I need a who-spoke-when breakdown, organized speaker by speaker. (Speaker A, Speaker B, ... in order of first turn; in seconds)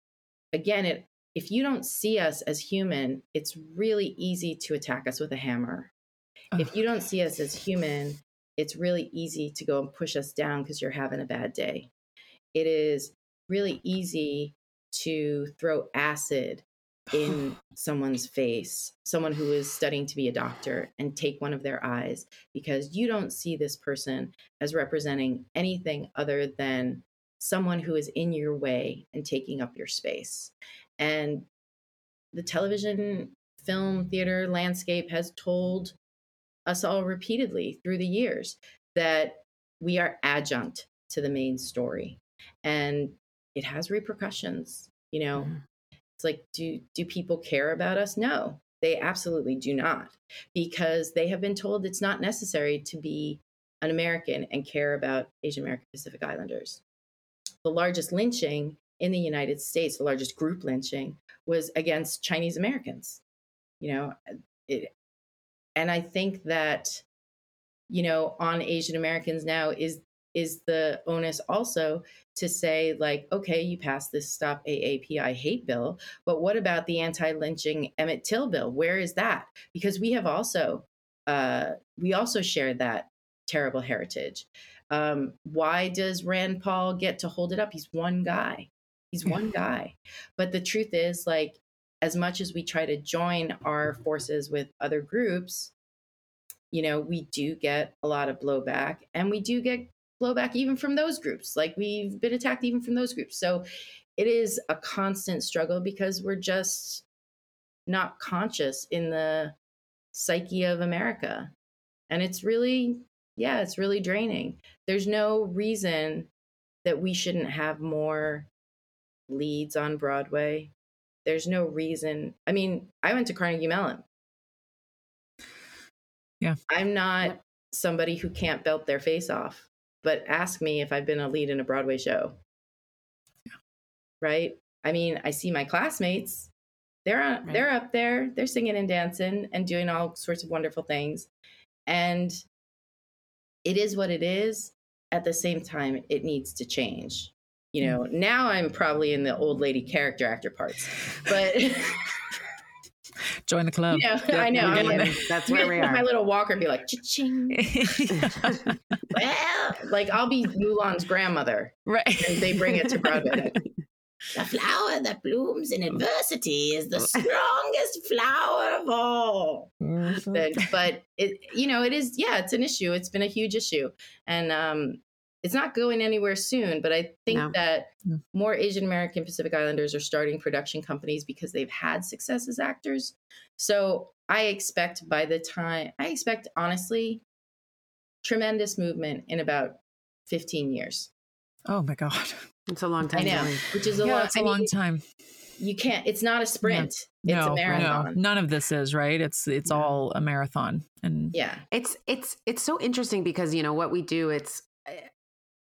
Speaker A: 0.5-5.9, 6.6-11.9, 12.5-31.5, 32.3-35.9, 36.6-45.5, 46.2-56.8, 57.6-63.2, 63.8-64.9, 65.8-67.0, 67.9-95.7, 96.7-103.7, 104.2-107.0, 107.9-109.5, 110.1-111.5, 112.1-116.3, 116.8-118.5, 119.3-120.7, 121.2-124.0, 126.7-132.4, 134.2-136.5, 137.0-141.3, 141.9-142.4, 143.6-152.2, 153.9-157.7, 159.1-163.6, 164.3-169.7, 170.3-187.2, 188.2-191.1, 193.2-194.7, 195.6-198.2, 201.3-201.6
Speaker B: 153.5-155.3, 157.5-158.7, 161.9-162.7, 169.8-170.6, 191.7-192.4, 193.1-193.4, 194.0-195.0, 196.6-201.3
Speaker C: 154.6-156.1, 158.2-158.5, 177.3-177.5, 192.7-193.9, 197.7-197.9, 201.7-205.1